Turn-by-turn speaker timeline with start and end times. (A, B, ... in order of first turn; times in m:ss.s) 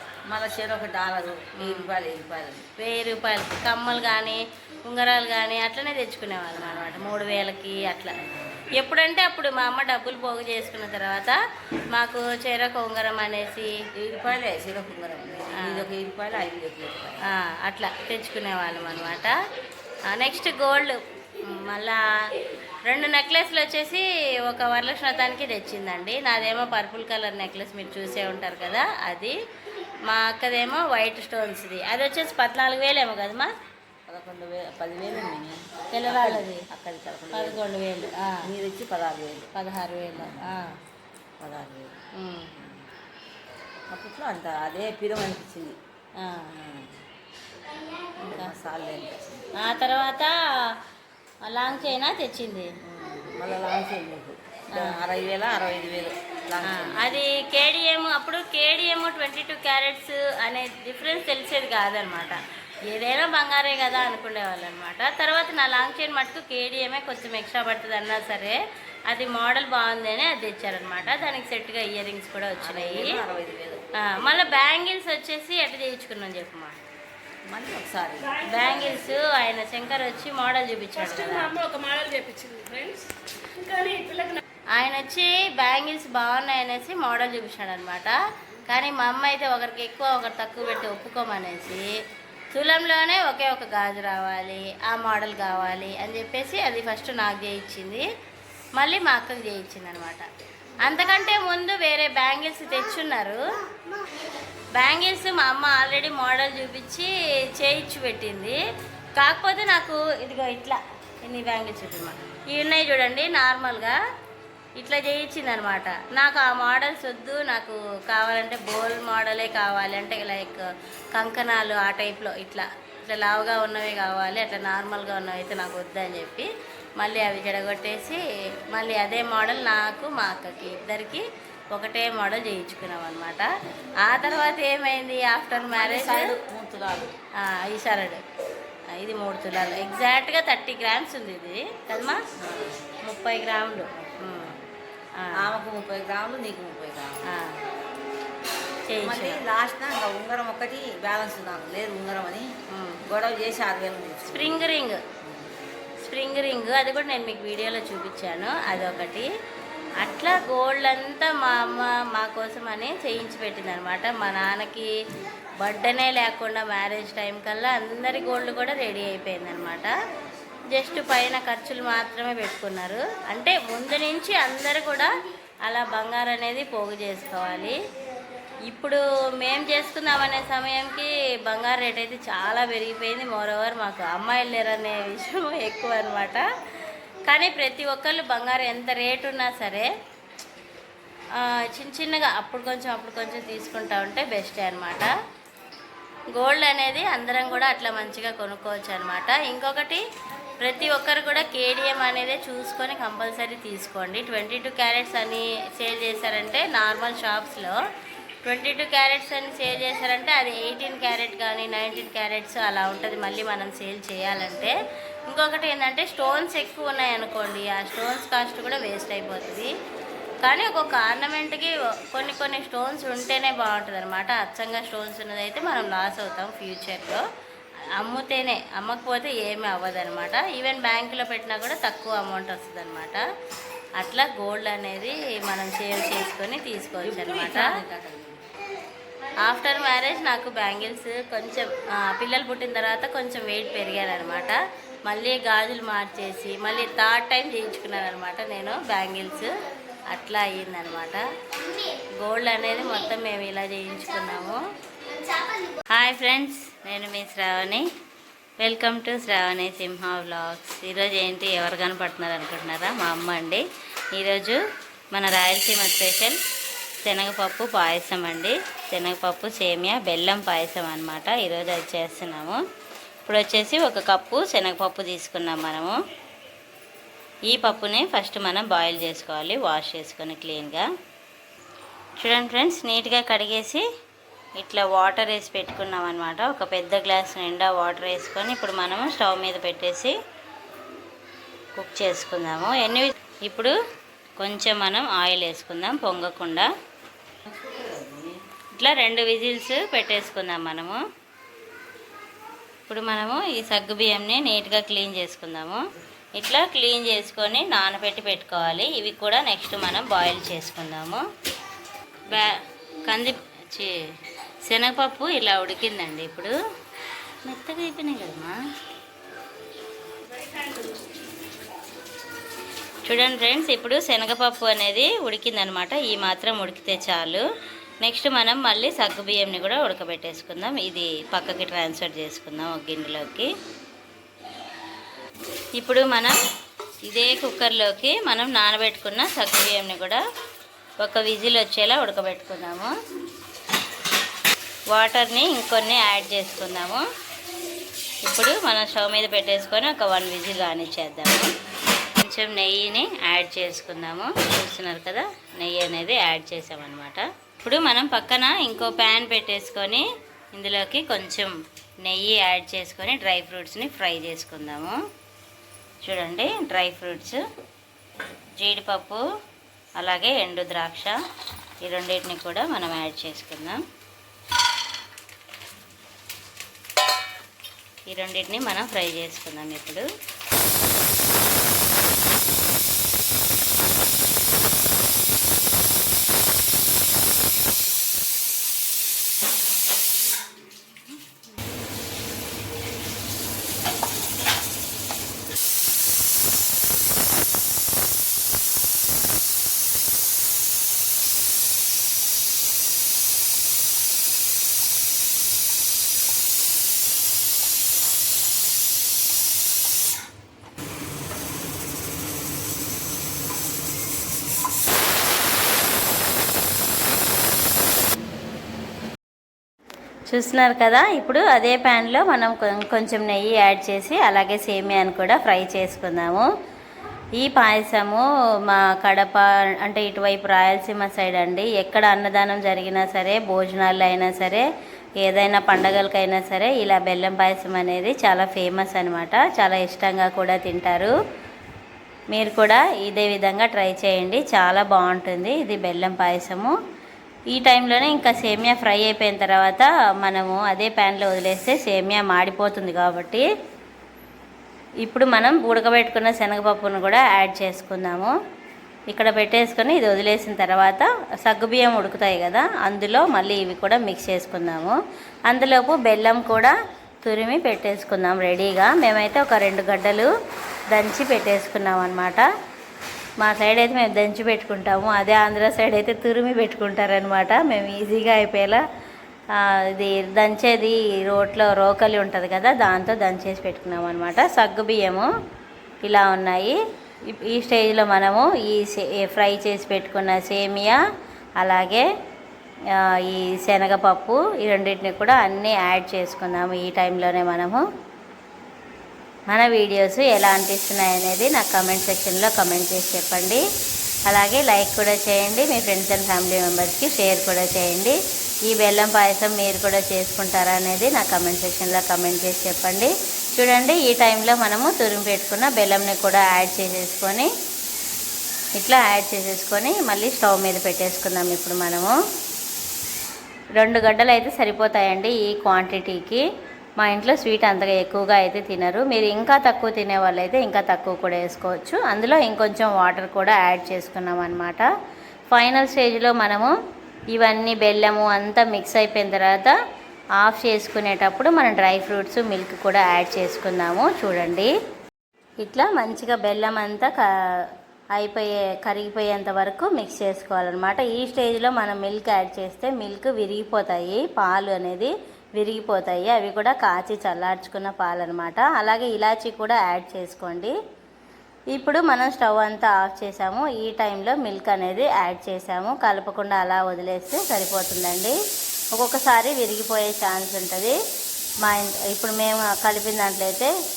0:00.2-0:02.6 A
0:01.6-0:01.9 B
0:02.8-0:11.4 B
0:06.6-0:07.1 A
0:08.2-0:08.6 A
0:11.9-0:13.7 B
0:13.9-0:17.2 A
0:15.6-0:15.9 B
0:17.2-0:19.4 B
0:20.1-0:22.3 B
0:22.8-0:29.4 B
0:30.0-0:33.5 B
0:34.1-0:37.6 A
0:35.9-0:36.7 B
0:37.3-0:38.5 B
0:38.4-0:39.5 A
0:39.5-0:40.8 B
0:40.1-0:40.6 A
0:41.4-0:42.0 A
0:42.1-0:42.5 B
0:42.5-0:42.8 A
0:43.9-0:45.8 A
0:46.2-0:46.5 B
0:46.5-0:47.0 A
0:48.2-0:48.5 B
0:48.3-0:49.5 A
0:49.5-0:50.8 B
0:51.4-0:52.7 B
0:51.7-0:51.9 A
0:52.8-0:57.2 A
0:54.7-0:55.0 B
0:56.6-1:13.2 B
1:12.6-1:13.9 A
1:13.9-1:16.8 B
1:17.4-1:19.0 A
1:18.4-1:21.6 B
1:21.0-1:24.4 C
1:24.7-1:32.0 B
1:32.5-1:38.1 B
1:38.7-1:40.3 B
1:40.8-1:43.4 B
1:44.7-1:48.6 B
1:49.1-1:54.0 B
1:54.8-2:13.5 B
2:14.0-2:16.4 B
2:15.7-2:17.1 A
2:17.4-2:18.2 B
2:18.9-2:22.2 B
2:22.4-2:22.8 A
2:23.0-2:24.6 B
2:25.2-2:25.5 B
2:25.3-2:27.2 A
2:27.3-2:27.6 B
2:28.9-2:29.4 B
2:29.0-2:32.5 A
2:32.7-2:33.0 B
2:33.0-2:34.7 A
2:34.3-2:35.0 B
2:35.2-2:35.5 A
2:36.0-2:39.3 B
2:40.0-2:44.9 B
2:45.6-2:49.9 B
2:50.7-2:55.1 B
2:55.6-2:57.8 B
2:58.7-3:06.4 B
3:07.2-3:09.9 B
3:11.3-3:15.1 B
3:16.3-3:20.0 B
3:20.6-3:27.8 B
3:28.4-3:34.7 B
3:35.3-3:39.7 B
3:40.4-3:47.2 B
3:48.0-3:53.2 B
3:54.0-3:57.8 B
3:57.0-3:58.4 A
3:59.4-4:09.5 B
4:10.1-4:14.6 B
4:15.4-4:17.8 B
4:18.6-4:24.6 B
4:25.1-4:26.4 B
4:27.0-4:32.6 B
4:33.2-4:36.0 B
4:37.5-4:40.9 B
4:42.2-4:43.8 B
4:44.6-4:50.2 B
4:51.7-4:53.7 B
4:54.4-4:56.7 B
4:57.5-4:58.4 A
4:58.8-5:01.0 B
5:02.9-5:05.8 B
5:06.3-5:11.2 B
5:12.3-5:14.0 B
5:14.6-5:16.5 B
5:17.4-5:18.6 B
5:20.3-5:21.1 C
5:23.0-5:27.4 B
5:28.0-5:33.5 B
5:35.8-5:36.3 B
5:37.0-5:40.2 B
5:41.0-5:42.9 B
5:44.9-5:47.0 B
5:48.2-5:51.5 B
5:52.2-6:05.0 B
6:06.0-6:07.4 B
6:08.6-6:09.2 B
6:10.0-6:11.1 B
6:11.8-6:13.8 B
6:18.1-6:20.0 B
7:00.3-7:06.4 B
7:07.4-7:14.6 B
7:15.2-7:21.1 B
7:22.3-7:26.7 B
7:27.5-7:33.4 B
7:35.0-7:38.3 B
7:39.1-7:45.0 B
7:45.5-7:50.3 B
7:50.9-7:52.4 B
7:53.4-7:58.8 B
7:59.6-8:05.3 B
8:06.0-8:06.8 B
8:07.3-8:11.0 B
8:11.6-8:12.0 B
8:12.9-8:17.8 B
8:19.5-8:23.6 B
8:24.3-8:37.5 B
8:38.7-8:42.1 B
8:43.8-8:46.4 B
8:47.0-8:54.8 B
8:55.5-8:56.7 B
8:57.3-8:59.8 B
9:00.4-9:04.7 B
9:05.6-9:07.2 B
9:08.2-9:20.7 B
9:21.7-9:28.3 B
9:28.9-9:31.0 B
9:31.6-9:33.7 B